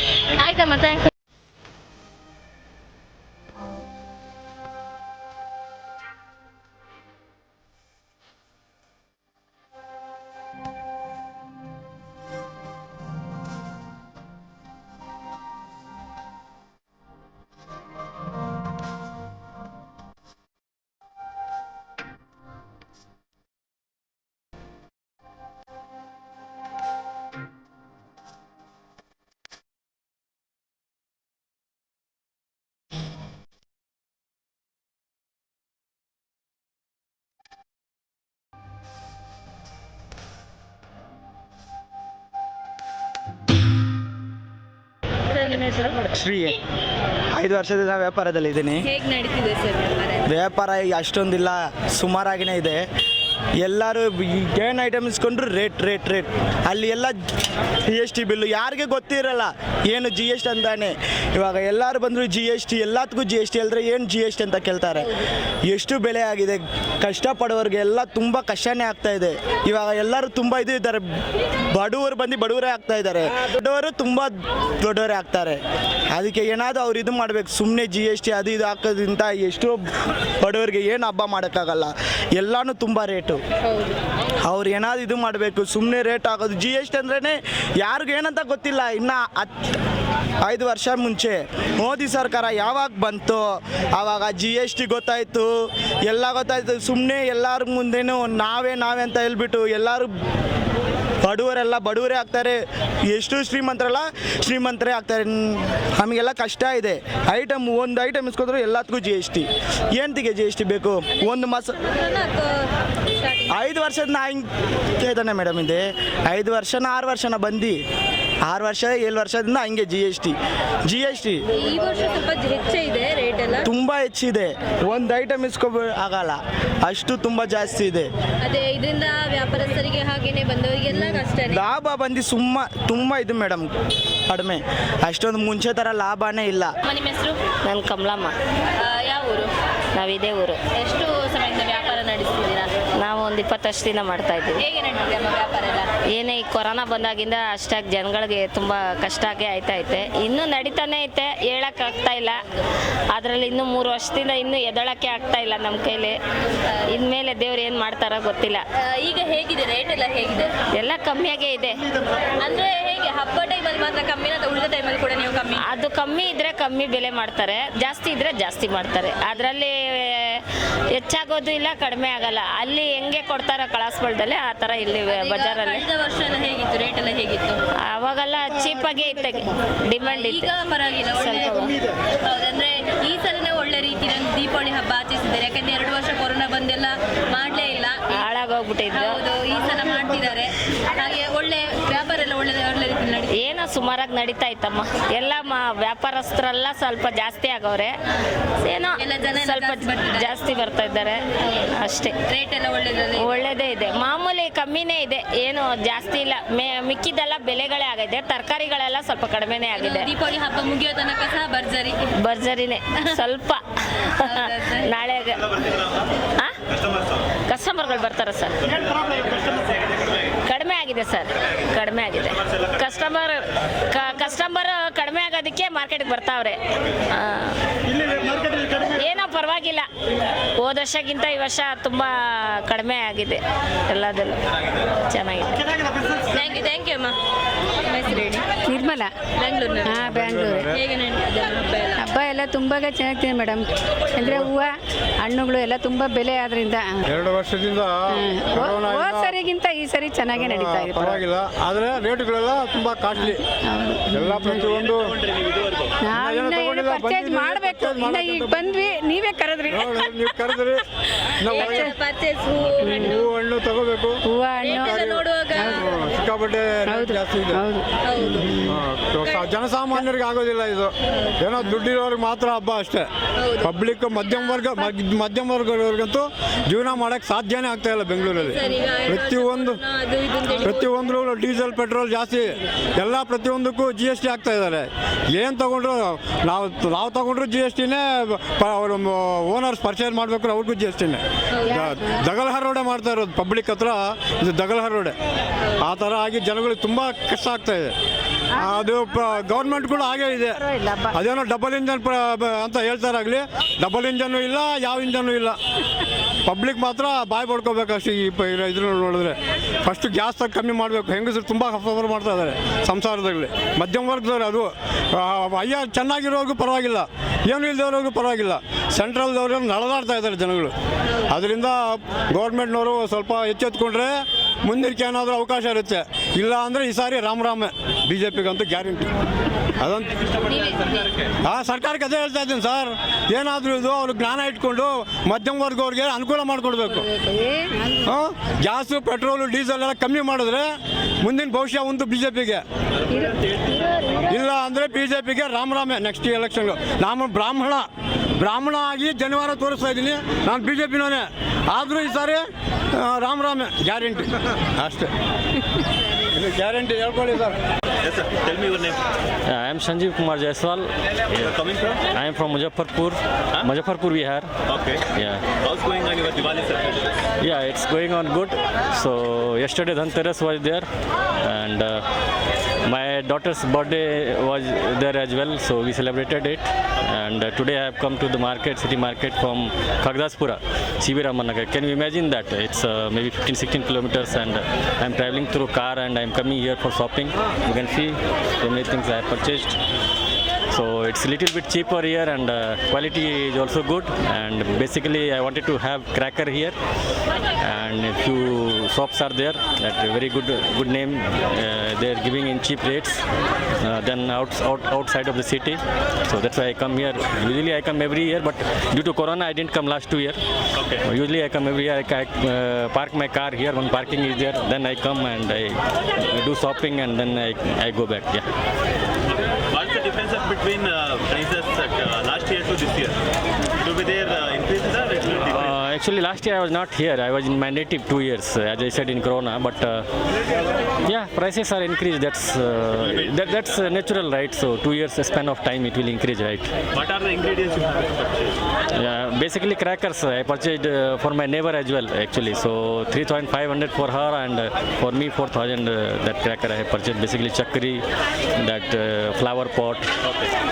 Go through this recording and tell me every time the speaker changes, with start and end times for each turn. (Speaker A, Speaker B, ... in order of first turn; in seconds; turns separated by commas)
Speaker A: 0.5-0.9, Speaker A: 45.4-46.0, Speaker B: 46.0-46.6, Speaker B: 47.3-48.9, Speaker A: 48.8-50.2, Speaker B: 50.3-52.8, Speaker B: 53.6-57.2, Speaker B: 57.9-65.1, Speaker B: 65.7-71.1, Speaker B: 71.7-75.6, Speaker B: 76.1-79.9, Speaker B: 80.4-83.4, Speaker A: 83.6-84.0, Speaker B: 84.5-89.7, Speaker B: 90.4-100.1, Speaker B: 101.2-111.7, Speaker A: 111.2-113.6, Speaker B: 113.5-114.5, Speaker B: 115.0-117.8, Speaker B: 118.5-120.4, Speaker B: 120.9-121.4, Speaker A: 121.5-123.7, Speaker B: 123.6-128.1, Speaker A: 128.4-131.6, Speaker B: 131.5-133.7, Speaker B: 134.3-136.7, Speaker A: 136.8-137.4, Speaker C: 137.7-138.3, Speaker A: 138.8-139.5, Speaker C: 139.9-140.6, Speaker A: 140.8-142.7, Speaker C: 143.0-144.6, Speaker A: 144.6-145.9, Speaker C: 146.1-152.4, Speaker C: 153.1-156.2, Speaker C: 156.9-158.6, Speaker A: 158.8-160.6, Speaker C: 160.7-161.8, Speaker A: 162.4-165.7, Speaker C: 165.6-175.8, Speaker A: 175.1-177.6, Speaker C: 177.9-180.5, Speaker A: 180.0-188.3, Speaker C: 181.2-181.7, Speaker C: 188.1-189.2, Speaker A: 188.9-193.4, Speaker C: 193.3-197.9, Speaker C: 198.6-202.2, Speaker A: 199.0-200.4, Speaker A: 202.3-203.3, Speaker C: 203.2-210.1, Speaker A: 209.7-212.1, Speaker C: 212.2-215.4, Speaker A: 214.2-214.9, Speaker D: 215.4-216.1, Speaker D: 216.7-217.3, Speaker C: 217.5-218.6, Speaker D: 218.6-220.3, Speaker C: 220.5-226.6, Speaker C: 227.1-227.6, Speaker D: 228.0-228.7, Speaker C: 228.8-229.9, Speaker C: 230.6-234.4, Speaker C: 235.1-235.6, Speaker A: 236.3-237.2, Speaker A: 237.8-238.5, Speaker E: 238.7-239.1, Speaker A: 239.4-240.0, Speaker E: 239.8-240.7, Speaker F: 239.9-240.8, Speaker A: 240.7-242.0, Speaker E: 242.0-243.6, Speaker E: 244.2-244.7, Speaker F: 244.2-244.5, Speaker E: 245.2-247.0, Speaker F: 247.1-249.4, Speaker E: 248.1-251.2, Speaker F: 250.3-253.4, Speaker E: 253.2-254.7, Speaker F: 254.1-255.1, Speaker D: 254.5-255.9, Speaker E: 256.0-260.6, Speaker F: 256.1-258.8, Speaker F: 259.7-260.8, Speaker F: 261.4-261.9, Speaker A: 261.4-263.2, Speaker E: 261.6-261.9, Speaker E: 262.9-263.2, Speaker F: 262.9-264.2, Speaker E: 264.2-265.0, Speaker A: 264.6-265.9, Speaker F: 264.7-267.6, Speaker E: 266.9-267.8, Speaker A: 268.0-268.6, Speaker F: 268.7-273.1, Speaker A: 271.1-271.7, Speaker A: 273.4-274.9, Speaker F: 273.6-279.8, Speaker A: 278.3-281.2, Speaker F: 280.6-295.1, Speaker A: 291.5-291.9, Speaker E: 291.8-292.1, Speaker F: 295.8-297.9, Speaker F: 298.6-305.6, Speaker E: 300.6-301.1, Speaker F: 306.5-320.7, Speaker F: 321.3-329.1, Speaker F: 329.8-330.1, Speaker D: 330.2-331.3, Speaker A: 330.5-331.2, Speaker F: 331.4-337.1, Speaker E: 337.2-338.0, Speaker F: 338.1-340.7, Speaker F: 341.2-342.6, Speaker D: 343.1-343.6, Speaker F: 344.3-347.9, Speaker F: 348.4-355.1, Speaker F: 356.3-357.6, Speaker D: 358.0-359.0, Speaker G: 359.5-361.5, Speaker D: 361.3-362.1, Speaker G: 362.1-364.5, Speaker D: 364.7-365.0, Speaker G: 365.1-365.4, Speaker D: 365.6-367.1, Speaker G: 367.4-370.9, Speaker G: 371.4-372.0, Speaker G: 372.9-389.8, Speaker G: 390.7-396.8, Speaker G: 397.6-403.2, Speaker G: 403.8-410.4, Speaker D: 410.8-411.1, Speaker G: 411.0-418.5, Speaker D: 419.5-423.2, Speaker D: 423.8-425.7, Speaker G: 425.5-430.1, Speaker G: 431.0-436.7, Speaker D: 433.0-433.6, Speaker D: 436.9-438.6, Speaker G: 438.9-448.0, Speaker G: 448.6-450.1